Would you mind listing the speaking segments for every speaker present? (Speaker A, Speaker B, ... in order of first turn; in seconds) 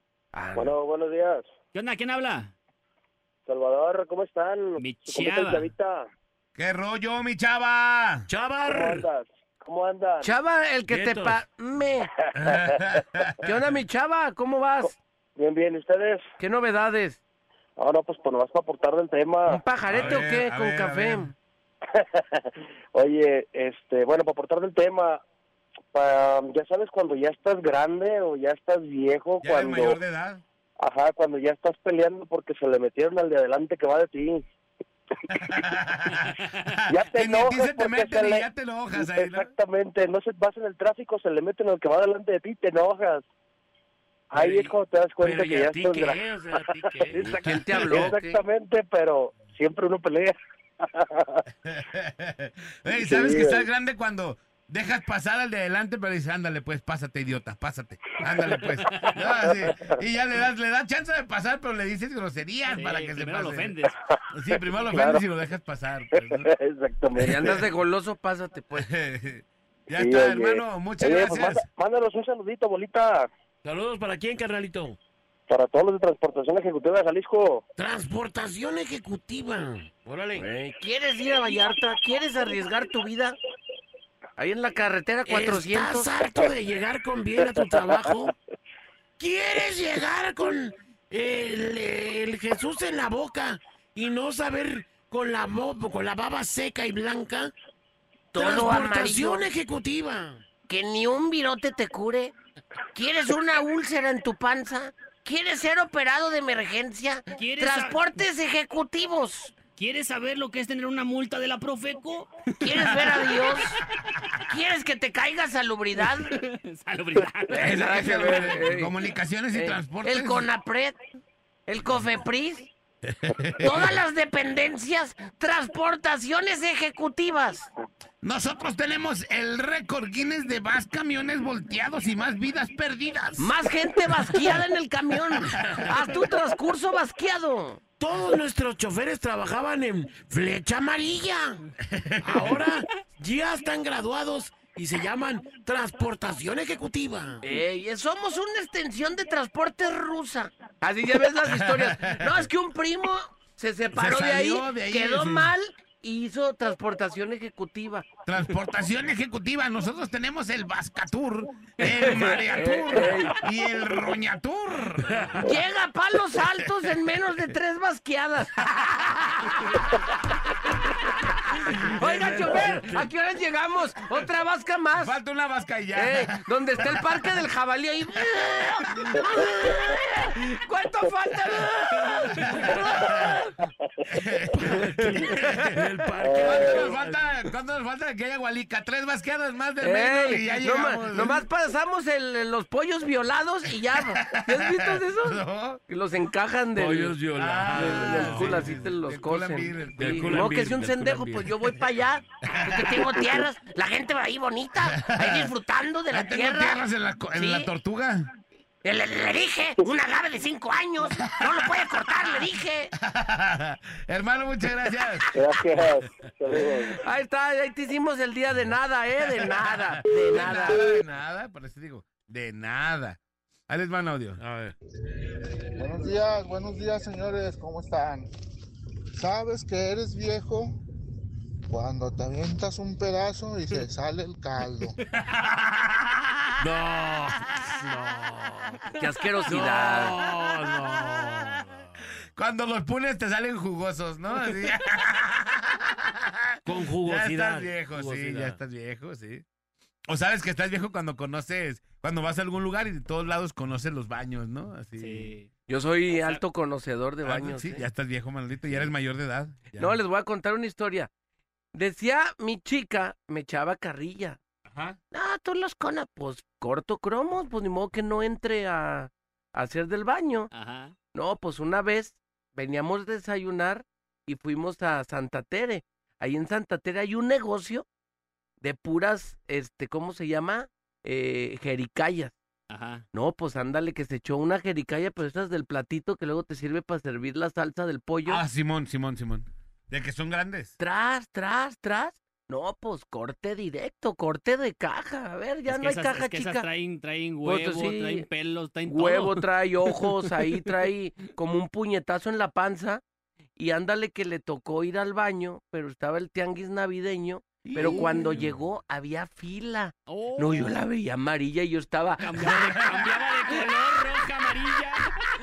Speaker A: 0.3-0.8, 10.2-12.1, 13.4-14.9, 16.4-17.2, 19.5-21.3, 47.2-48.4, 67.2-68.9, 80.3-83.4, 84.4-86.3, 98.3-99.5, 100.7-102.3, 102.9-109.5, 112.6-113.7, 114.4-116.3, 117.5-118.9, 119.5-121.0, 121.7-122.7, 123.6-127.7, 133.4-137.8, 147.4-158.1, 161.8-163.4, 165.4-170.1, 171.3-175.2, 175.9-182.4, 183.0-183.4, 189.8-206.8, 207.3-207.7, 208.8-212.9, 217.0-220.9, 239.0-240.2, 255.7-257.8, 259.7-261.1, 261.7-264.4, 265.1-270.5, 271.1-277.8, 278.6-282.3, 283.1-288.4, 290.8-296.6, 297.4-298.2, 298.9-303.0, 303.6-312.5
Speaker B: 0.5-1.5, 3.5-6.1, 8.6-10.3, 12.5-12.8, 14.8-16.2, 17.8-19.6, 21.9-25.2, 25.9-30.0, 30.8-34.4, 36.9-38.5, 39.0-43.2, 44.3-51.4, 53.0-53.6, 58.5-60.0, 64.5-65.2, 66.1-67.6, 70.0-73.3, 75.5-77.6, 186.2-186.9, 215.3-216.9
Speaker C: 1.7-2.5, 4.8-5.7, 36.4-36.7, 62.7-63.9, 107.3-108.2, 109.7-113.7, 116.3-117.7, 255.0-255.5, 256.1-256.4, 270.5-270.9, 282.7-283.0, 295.7-300.3, 307.8-308.3, 310.1-310.7, 312.2-315.1
Speaker D: 6.5-8.3, 12.3-13.6, 19.9-21.3, 29.4-30.4, 35.3-39.5, 51.6-63.8, 64.3-66.5, 68.7-71.7, 117.6-120.5, 123.1-123.9, 128.2-133.5, 141.9-142.5, 151.2-152.3, 153.9-155.5, 158.3-165.3, 175.0-177.0, 182.4-183.4, 184.1-185.6, 186.4-191.4, 193.9-195.8, 197.3-200.4, 202.5-203.2, 204.8-205.5, 206.1-208.3, 211.1-215.3, 219.4-224.4, 235.3-236.4, 240.7-241.6, 242.3-249.4, 250.1-255.3, 257.2-260.0, 264.7-265.0, 288.2-290.8, 307.7-308.4
Speaker E: 8.3-9.1, 10.9-11.4, 19.9-20.2, 44.3-48.1, 73.6-75.0, 77.8-80.5, 85.2-88.3, 89.2-97.5, 98.3-100.4, 135.5-135.9, 138.0-141.6, 142.2-147.4, 165.0-165.5, 171.8-173.1, 182.3-182.7, 184.5-187.2, 196.7-198.8, 199.9-201.7, 224.4-224.7, 236.6-242.2, 246.7-248.6
Speaker F: 225.2-228.3, 229.1-230.8, 231.7-234.9